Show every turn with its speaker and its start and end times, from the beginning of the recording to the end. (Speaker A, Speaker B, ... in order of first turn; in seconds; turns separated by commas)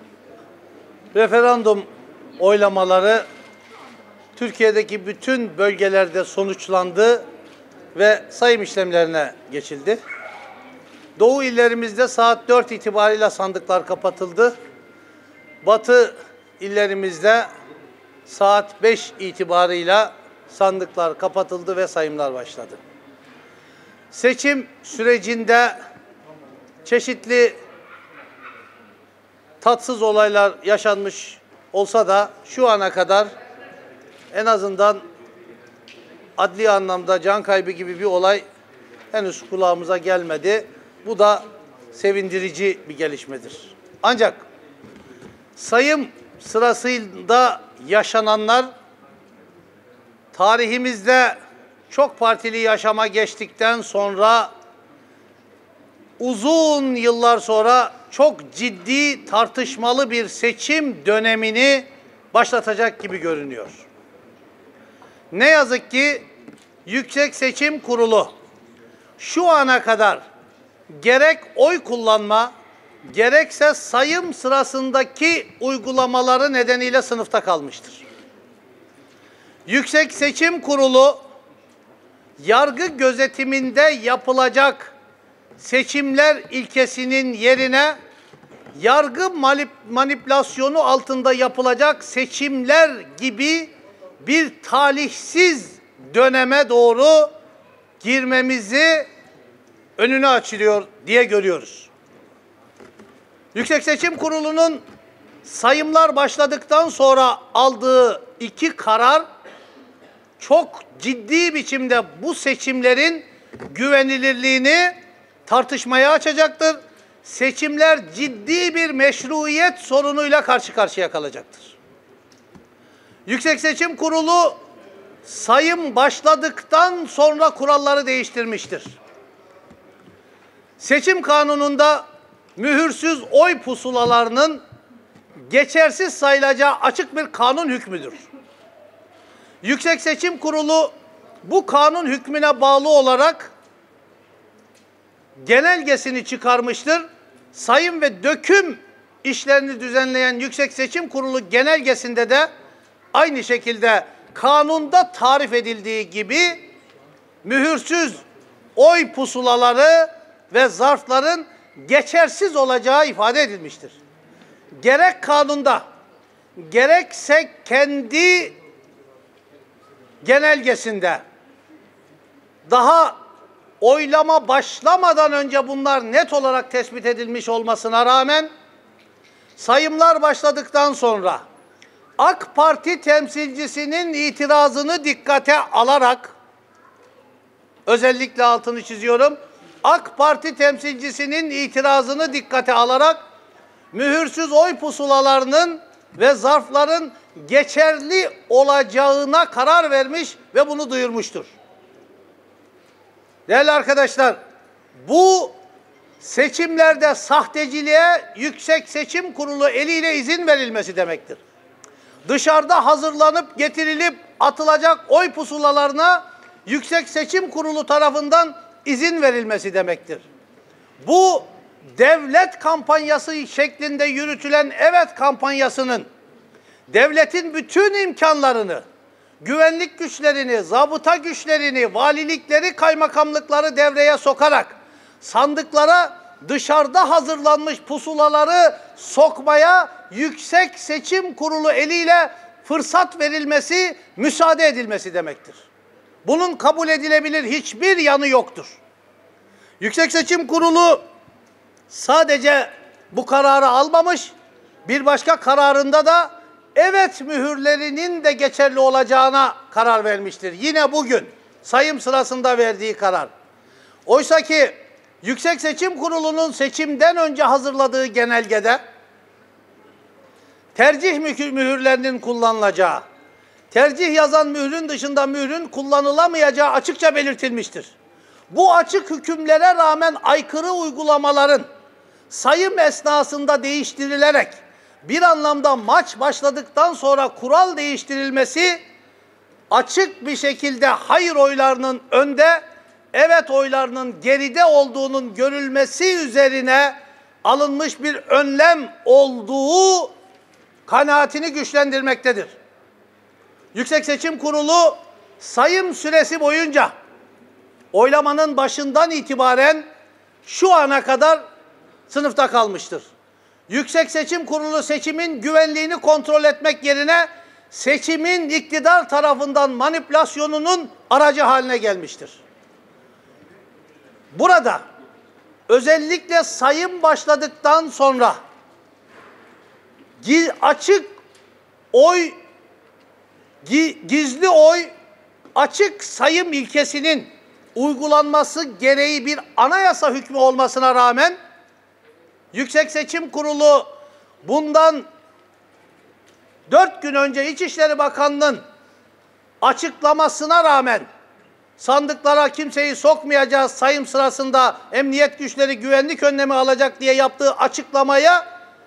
Speaker A: 1.1-1.9, Speaker A: 2.4-3.2, Speaker A: 4.3-7.2, Speaker A: 7.9-10.0, Speaker A: 11.2-14.5, Speaker A: 15.6-17.5, Speaker A: 18.2-22.8, Speaker A: 24.1-25.8, Speaker A: 26.8-27.6, Speaker A: 29.6-33.3, Speaker A: 34.3-35.0, Speaker A: 36.4-38.4, Speaker A: 39.1-44.4, Speaker A: 45.6-48.7, Speaker A: 50.3-51.4, Speaker A: 51.9-54.5, Speaker A: 56.2-63.8, Speaker A: 65.3-66.2, Speaker A: 66.8-68.3, Speaker A: 69.2-70.2, Speaker A: 70.9-72.5, Speaker A: 73.1-78.0, Speaker A: 79.7-81.2, Speaker A: 82.4-84.9, Speaker A: 85.6-88.0, Speaker A: 88.8-93.7, Speaker A: 94.2-97.3, Speaker A: 98.0-99.1, Speaker A: 100.0-101.9, Speaker A: 103.5-104.8, Speaker A: 105.4-109.2, Speaker A: 110.4-121.8, Speaker A: 123.3-124.6, Speaker A: 125.2-128.9, Speaker A: 130.8-132.0, Speaker A: 132.6-134.6, Speaker A: 135.5-138.2, Speaker A: 139.6-140.9, Speaker A: 141.4-143.5, Speaker A: 145.4-152.5, Speaker A: 153.1-156.6, Speaker A: 157.4-158.2, Speaker A: 158.8-163.9, Speaker A: 164.8-165.8, Speaker A: 166.6-168.6, Speaker A: 170.2-171.2, Speaker A: 172.7-173.2, Speaker A: 173.8-178.5, Speaker A: 179.6-181.4, Speaker A: 182.2-186.3, Speaker A: 187.8-193.2, Speaker A: 193.9-201.5, Speaker A: 203.5-204.4, Speaker A: 205.1-205.5, Speaker A: 206.2-211.4, Speaker A: 212.3-220.2, Speaker A: 221.0-226.1, Speaker A: 226.9-228.8, Speaker A: 229.4-245.6, Speaker A: 246.2-248.8, Speaker A: 249.8-251.0, Speaker A: 251.9-254.3, Speaker A: 254.9-263.3, Speaker A: 264.1-268.8, Speaker A: 270.7-273.0, Speaker A: 273.7-277.9, Speaker A: 278.5-281.6, Speaker A: 282.3-288.8, Speaker A: 289.7-292.6, Speaker A: 293.1-300.1, Speaker A: 300.9-302.5, Speaker A: 303.7-306.9, Speaker A: 307.9-309.8, Speaker A: 310.4-311.4, Speaker A: 312.1-313.1, Speaker A: 313.7-322.4, Speaker A: 324.3-324.8, Speaker A: 325.7-328.4, Speaker A: 330.2-331.1, Speaker A: 331.9-332.4, Speaker A: 333.6-334.9, Speaker A: 335.5-341.4, Speaker A: 342.5-343.9, Speaker A: 344.4-345.0, Speaker A: 346.7-348.6, Speaker A: 349.6-351.1, Speaker A: 351.8-358.4